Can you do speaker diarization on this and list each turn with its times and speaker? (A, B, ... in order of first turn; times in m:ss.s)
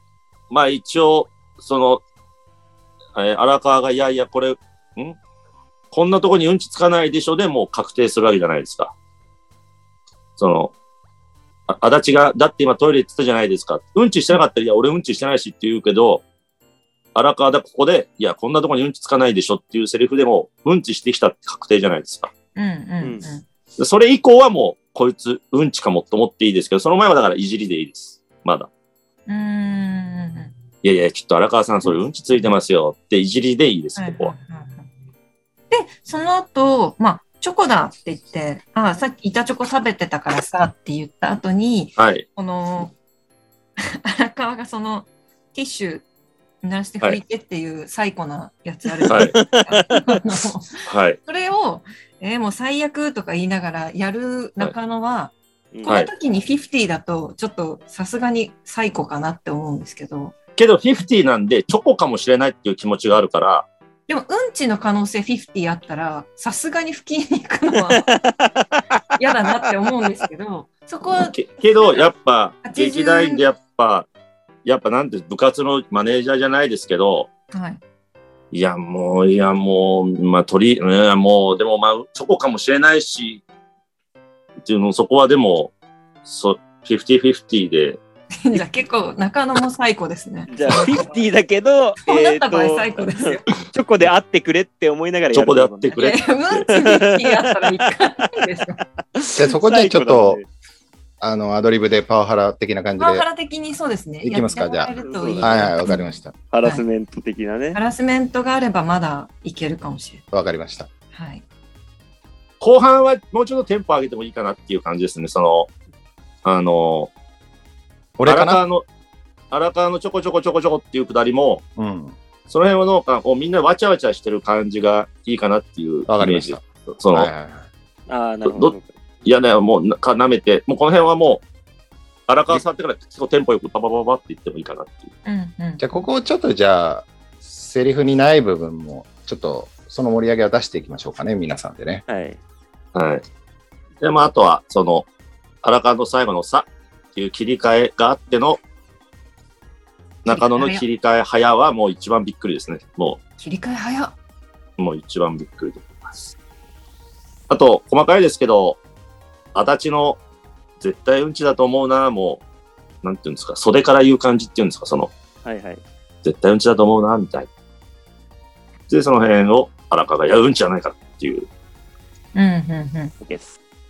0:00.5-0:02.0 A
0:03.1-0:05.2 A
0:05.9-0:08.9 A
0:10.4-0:10.7 A
0:11.7-0:16.2 A
0:17.1-0:22.3 A
0:22.5-0:23.4 B
0:23.0-0:23.3 C
0:23.8-0:28.7 A
0:29.3-0:30.5 B
0:30.8-0:34.3 A
0:34.0-0:34.9 B
0:35.7-0:42.9 B
0:42.0-0:42.2 A
0:43.8-0:46.0 B
0:46.6-1:00.3 B
0:49.0-0:50.2 C
0:49.1-0:49.4 A
0:50.8-0:51.2 A
0:55.7-0:56.0 C
1:00.6-1:03.7 A
1:04.1-1:08.1 B
1:07.9-1:09.0 C
1:09.2-1:12.1 B
1:11.3-1:14.1 A
1:12.6-1:13.4 B
1:14.6-1:17.3 A
1:17.5-1:17.8 B
1:18.5-1:23.4 A
1:24.6-1:25.7 A
1:26.2-1:28.0 A
1:28.4-1:31.1 B
1:30.5-1:36.0 C
1:32.0-1:33.5 B
1:35.3-1:36.6 A
1:35.9-1:38.8 B
1:36.6-1:38.4 C
1:39.1-1:40.5 C
1:39.3-1:40.4 D
1:41.2-1:43.2 D
1:43.0-1:46.8 B
1:44.2-1:46.3 D
1:44.9-1:45.8 C
1:46.5-1:47.8 C
1:47.7-1:50.2 B
1:50.3-1:50.9 D
1:51.1-1:51.4 B
1:52.6-1:55.7 A
1:56.4-1:57.1 A
1:58.2-1:58.6 D
1:58.2-1:58.8 A
1:59.5-2:01.6 A
2:01.8-2:02.2 D
2:02.5-2:07.3 A
2:06.1-2:07.7 D
2:08.1-2:08.9 C
2:08.4-2:11.4 A
2:12.3-2:15.1 A
2:15.2-2:15.8 B
2:15.8-2:22.0 D
2:22.1-2:22.4 C
2:22.9-2:23.2 A
2:24.0-2:25.1 A
2:25.6-2:28.6 A
2:30.2-2:33.2 A
2:30.3-2:30.8 B
2:33.4-2:34.2 B
2:34.8-2:36.3 A
2:37.5-2:38.8 A
2:39.5-2:40.2 A
2:40.8-2:42.4 A
2:43.0-2:45.1 A
2:45.4-2:45.8 C
2:46.2-2:47.5 A
2:48.9-2:51.5 A
2:52.3-2:53.1 B
2:53.2-2:53.6 C